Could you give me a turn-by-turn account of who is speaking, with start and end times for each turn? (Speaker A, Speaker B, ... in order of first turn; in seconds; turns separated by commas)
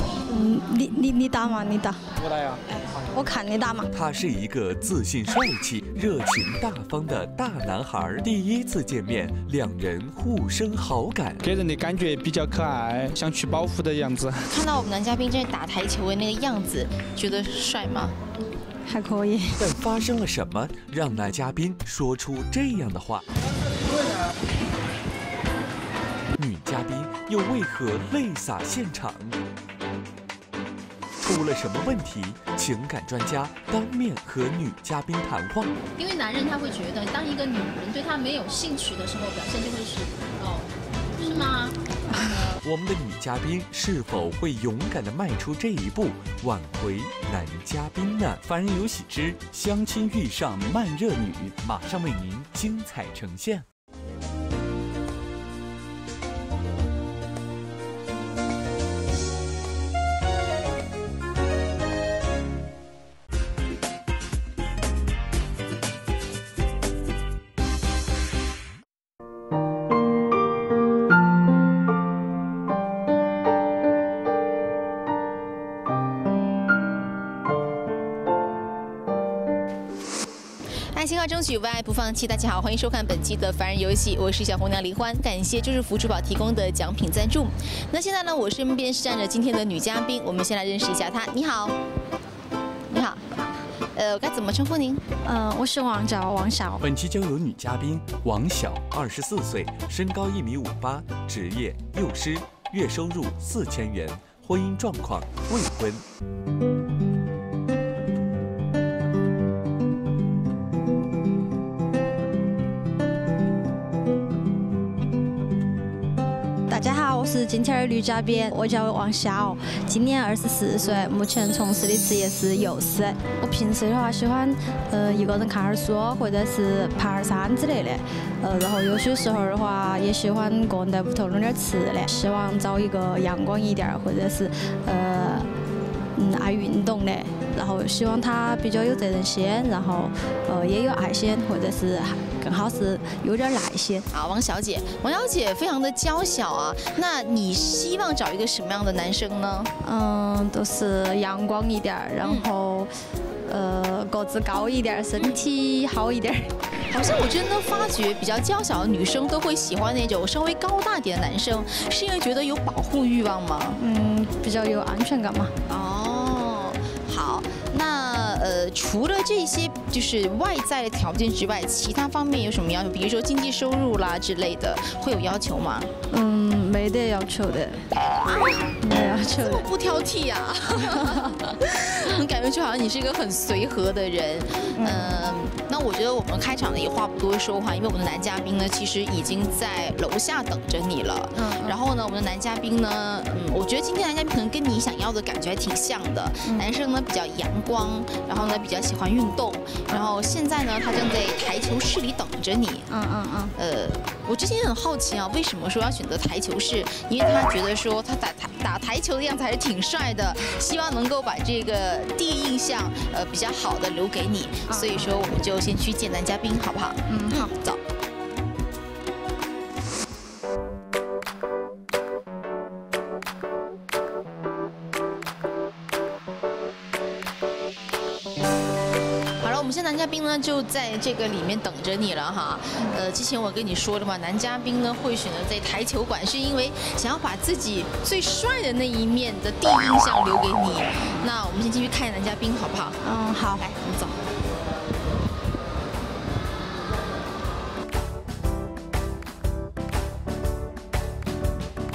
Speaker A: 0.3-2.0, Speaker B: 2.2-3.0, Speaker A: 3.1-3.9, Speaker C: 3.9-11.4, Speaker B: 11.4-14.5, Speaker D: 14.5-18.1, Speaker A: 18.9-19.6, Speaker C: 19.6-23.2, Speaker C: 26.4-29.4, Speaker C: 31.2-35.8, Speaker E: 36.0-41.8, Speaker C: 42.3-53.6, Speaker D: 80.9-91.8, Speaker D: 92.9-95.0, Speaker A: 95.2-96.8, Speaker C: 96.8-106.0, Speaker A: 116.7-135.5, Speaker A: 136.1-144.0, Speaker D: 144.1-149.7, Speaker A: 149.8-152.9, Speaker A: 153.5-156.5, Speaker D: 156.9-163.8, Speaker A: 163.8-165.5, Speaker D: 165.7-175.9, Speaker A: 176.1-177.8, Speaker D: 177.9-178.8, Speaker A: 178.8-179.7, Speaker D: 179.3-202.8, Speaker A: 180.9-181.3, Speaker A: 184.8-185.3, Speaker A: 191.3-191.8, Speaker A: 202.9-203.5, Speaker D: 203.6-217.8, Speaker A: 214.7-215.3, Speaker A: 217.1-217.5, Speaker D: 229.4-243.0, Speaker A: 243.0-243.7, Speaker D: 243.6-244.2